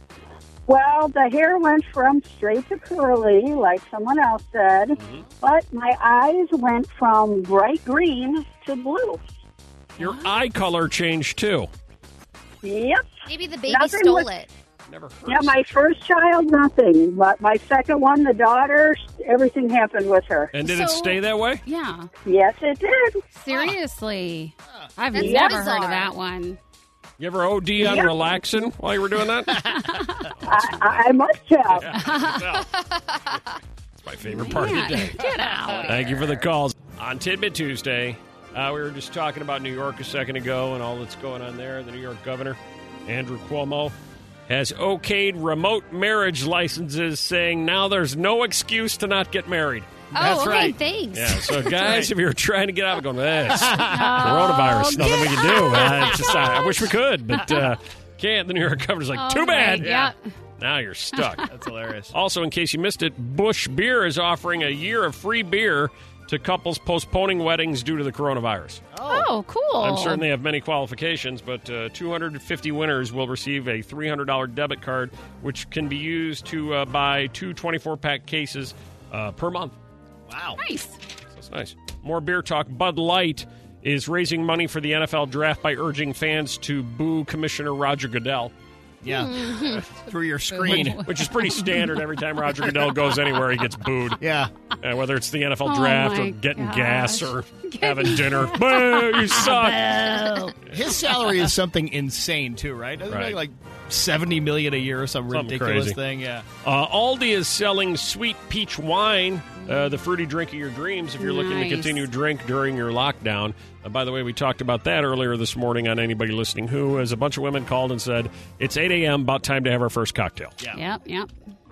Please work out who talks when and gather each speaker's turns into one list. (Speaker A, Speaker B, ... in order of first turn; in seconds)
Speaker A: 0.7-9.2, 12.6-13.1, 13.7-14.3, 15.3-20.5, 22.3-23.2, 25.2-25.5, 27.8-28.4, 30.4-31.9
Speaker B: 5.0-5.2, 10.0-11.7, 14.9-15.7, 20.5-21.6, 27.2-29.7, 30.3-32.7, 34.0-44.0, 44.5-50.0, 51.1-59.9, 60.6-61.5, 62.1-68.8, 69.8-79.8, 81.3-88.5, 90.7-94.2, 94.8-100.0, 103.1-103.4, 105.3-106.0, 106.6-120.6
Speaker C: 10.0-10.3, 20.6-22.1, 23.4-26.6, 29.6-30.3, 31.9-32.6, 34.2-36.4, 53.8-56.6, 57.4-57.7, 59.1-60.2, 69.1-70.2, 80.6-81.0, 90.5-91.9, 95.7-100.5, 111.2-112.1, 120.7-121.3
Speaker D: 13.3-14.5, 25.1-26.1, 32.7-33.4, 50.1-52.0, 89.1-89.8, 109.6-109.9
Speaker E: 35.2-35.9, 50.2-50.8, 51.8-52.1, 53.5-54.5, 59.8-60.1, 61.5-62.1, 68.9-69.3, 80.3-80.6, 89.0-91.0, 94.2-94.5, 99.7-106.5